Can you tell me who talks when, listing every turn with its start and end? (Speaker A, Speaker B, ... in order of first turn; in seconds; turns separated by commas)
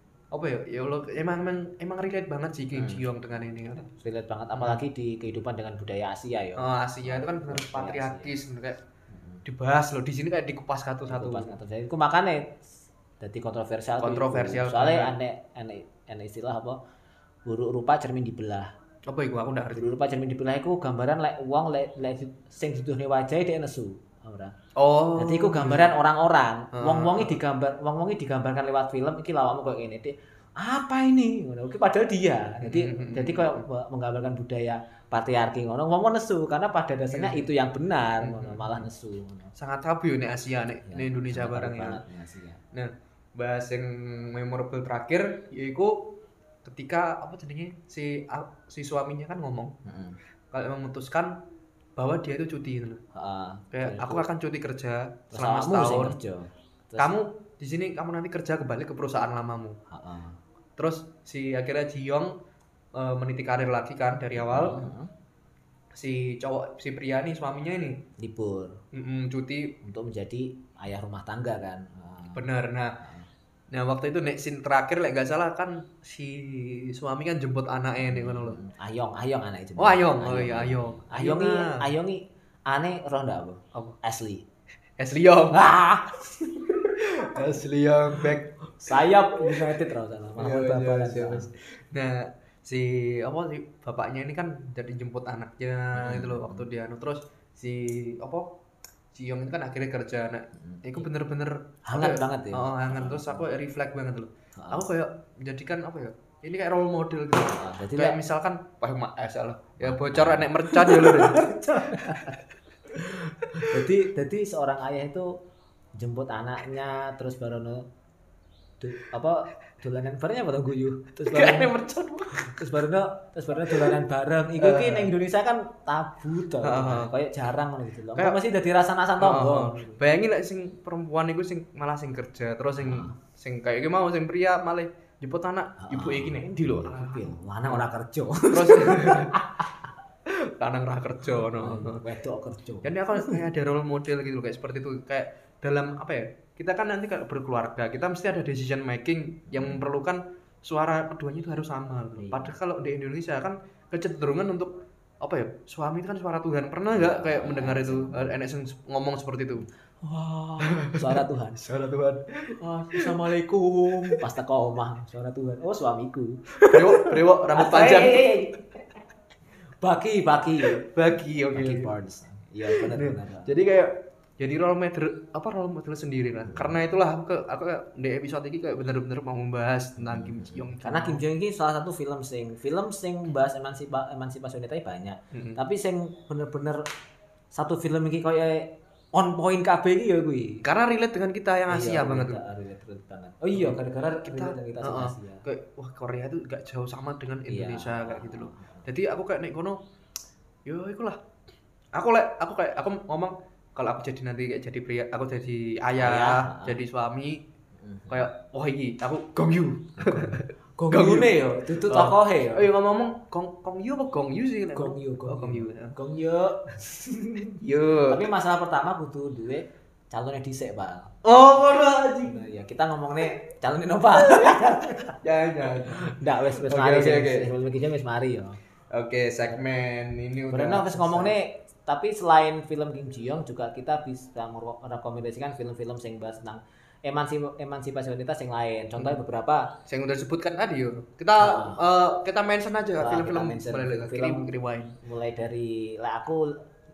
Speaker A: 0.3-3.9, Speaker B: 2.7-3.1, Speaker B: 4.0-8.3, Speaker A: 4.6-4.8, Speaker A: 6.6-8.8, Speaker B: 9.1-9.4, Speaker A: 9.4-11.5, Speaker B: 11.1-12.6, Speaker B: 13.2-16.8, Speaker A: 14.0-15.1, Speaker B: 17.4-18.7, Speaker A: 19.1-19.9, Speaker B: 19.7-24.5, Speaker A: 24.8-25.9, Speaker B: 25.1-39.5, Speaker A: 26.7-27.4, Speaker A: 32.6-33.6, Speaker A: 37.1-37.5, Speaker A: 38.2-38.9, Speaker A: 39.5-42.0, Speaker B: 40.9-42.6, Speaker A: 42.7-46.1, Speaker A: 46.6-49.7, Speaker B: 49.8-50.2, Speaker A: 50.5-51.4, Speaker A: 52.0-53.0, Speaker B: 53.1-54.3, Speaker A: 53.7-56.2, Speaker B: 55.3-57.1, Speaker A: 57.0-59.8, Speaker B: 59.9-60.4, Speaker A: 60.8-62.3, Speaker A: 62.9-64.8, Speaker B: 64.4-65.1, Speaker A: 65.9-68.0, Speaker B: 68.2-68.8, Speaker A: 68.9-69.7, Speaker B: 69.8-72.5, Speaker A: 72.3-72.9, Speaker B: 73.0-73.3, Speaker A: 73.7-78.6, Speaker B: 78.0-84.4, Speaker A: 79.8-81.9, Speaker A: 85.0-85.6, Speaker B: 85.5-87.5, Speaker A: 87.0-89.7, Speaker B: 88.8-91.5, Speaker A: 90.4-98.5, Speaker B: 95.9-96.7, Speaker A: 99.1-112.4, Speaker B: 100.5-101.1, Speaker B: 101.9-103.5, Speaker B: 104.5-104.9, Speaker B: 107.5-108.2, Speaker B: 109.8-112.4, Speaker A: 113.0-113.9, Speaker B: 113.0-115.4, Speaker B: 116.0-117.9, Speaker B: 118.8-121.8, Speaker A: 121.3-122.6, Speaker B: 122.3-130.0, Speaker A: 123.7-124.0, Speaker A: 124.6-125.1, Speaker A: 126.6-127.1, Speaker A: 128.1-128.4, Speaker A: 129.2-137.8, Speaker B: 132.8-133.1, Speaker B: 135.8-139.9, Speaker A: 138.5-139.4, Speaker A: 140.3-142.0, Speaker B: 141.3-143.4, Speaker A: 142.8-159.7, Speaker B: 149.5-149.8, Speaker B: 152.2-152.6, Speaker B: 156.9-158.3, Speaker B: 160.0-161.7, Speaker A: 160.6-164.3, Speaker B: 162.6-169.0, Speaker A: 166.6-168.4, Speaker B: 169.8-170.8, Speaker A: 170.6-171.9, Speaker B: 171.5-173.6, Speaker A: 172.7-181.2, Speaker B: 176.5-176.8, Speaker B: 180.0-186.9, Speaker A: 185.3-185.6, Speaker B: 187.5-190.6, Speaker A: 190.6-192.4, Speaker B: 191.7-195.4, Speaker A: 193.5-199.8, Speaker B: 197.5-198.9, Speaker A: 200.7-201.2, Speaker A: 201.9-207.4, Speaker B: 206.0-206.8, Speaker B: 207.8-208.3, Speaker A: 208.1-215.9, Speaker B: 210.0-212.7, Speaker B: 214.7-221.2, Speaker A: 217.6-218.3, Speaker A: 221.2-222.4, Speaker B: 222.2-225.2, Speaker A: 224.1-227.5, Speaker B: 225.9-228.6, Speaker A: 228.9-231.3, Speaker B: 230.5-239.7, Speaker A: 239.9-245.0, Speaker B: 241.4-241.8, Speaker B: 243.0-246.6